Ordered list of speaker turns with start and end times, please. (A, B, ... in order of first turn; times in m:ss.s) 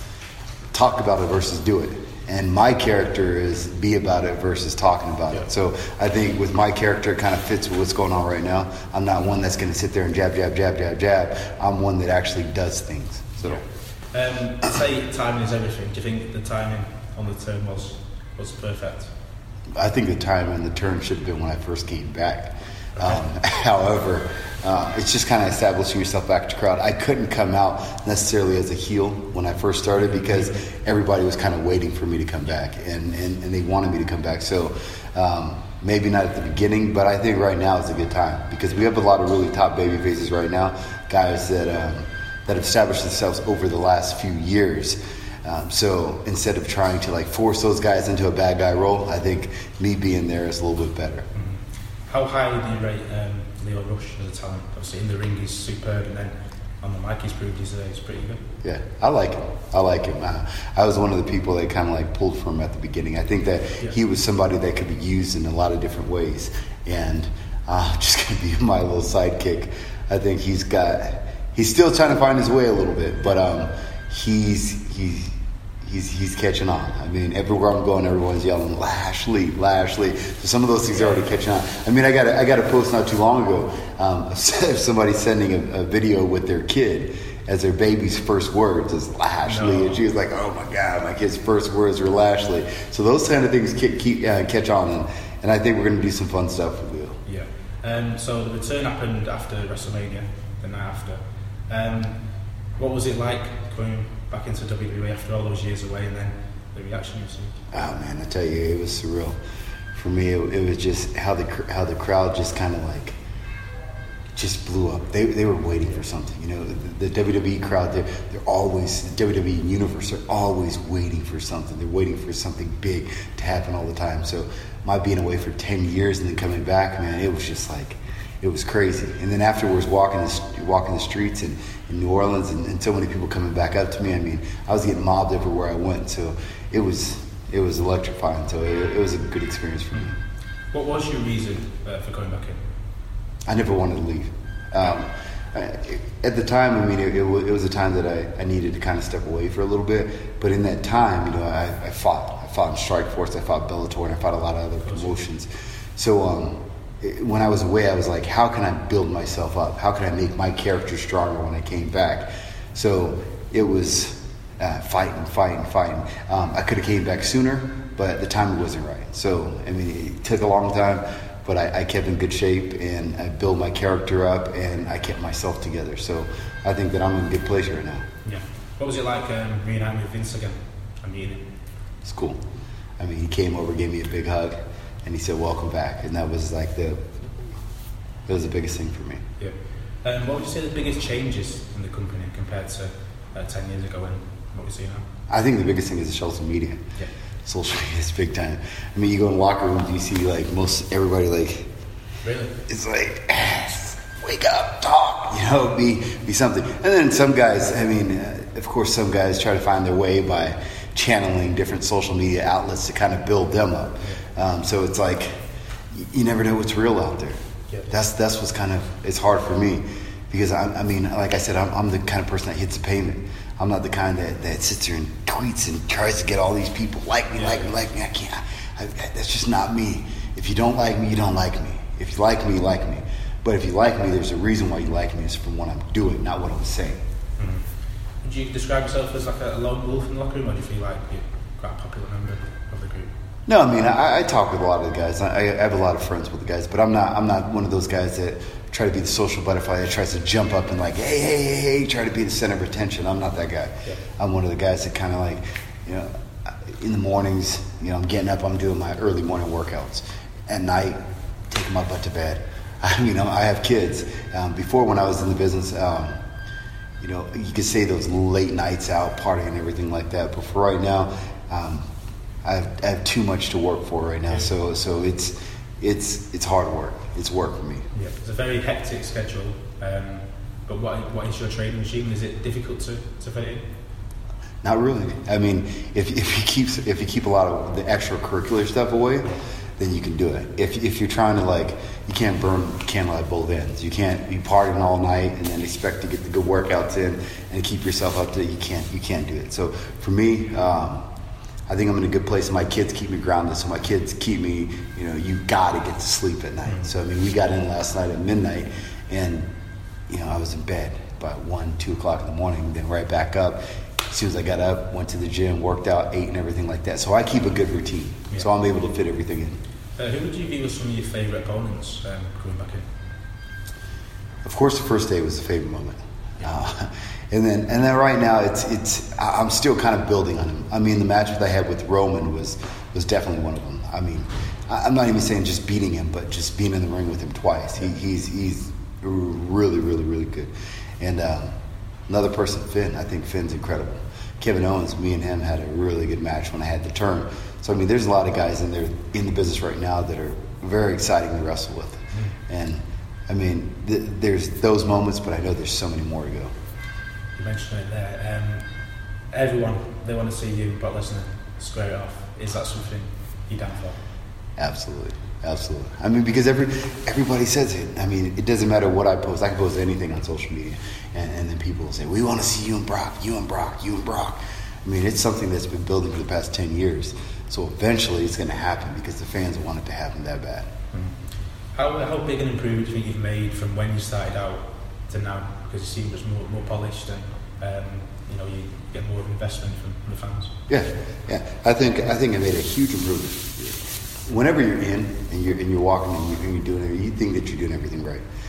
0:00.7-0:13.6 A
0:13.4-0:19.1 B
0:19.8-0:51.3 A
0:23.0-0:23.2 B
0:30.1-0:30.4 B
0:51.4-0:58.4 B
0:58.6-1:15.3 A
1:15.8-1:37.2 A
1:29.4-1:30.0 B
1:37.2-1:42.2 B
1:42.8-1:47.6 B
1:47.7-1:49.4 A
1:49.9-1:53.2 A
1:54.4-2:20.2 A
2:20.7-2:22.7 B
2:23.5-2:58.1 A
2:34.8-2:35.2 B
2:58.2-3:01.5 B
3:02.0-3:02.4 A
3:03.0-3:07.2 A
3:08.3-3:09.2 A
3:09.4-3:15.1 B
3:15.3-3:16.9 A
3:17.4-3:21.7 A
3:22.2-3:22.6 B
3:22.7-3:35.4 A
3:35.9-3:37.4 A
3:37.9-3:57.0 A
3:47.4-3:47.7 B
3:57.4-3:57.6 B
3:58.2-4:03.1 B
4:03.5-4:26.2 A
4:27.0-4:31.9 A
4:32.4-4:37.8 A
4:38.0-4:43.7 B
4:44.6-5:01.1 A
5:01.7-5:09.5 A
5:10.1-5:19.6 A
5:20.0-5:22.9 B
5:24.4-5:41.6 A
5:42.1-5:56.5 A
5:57.4-5:58.7 B
5:59.3-6:04.0 B
6:04.6-6:20.7 A
6:21.7-6:30.6 B
6:30.7-6:38.2 A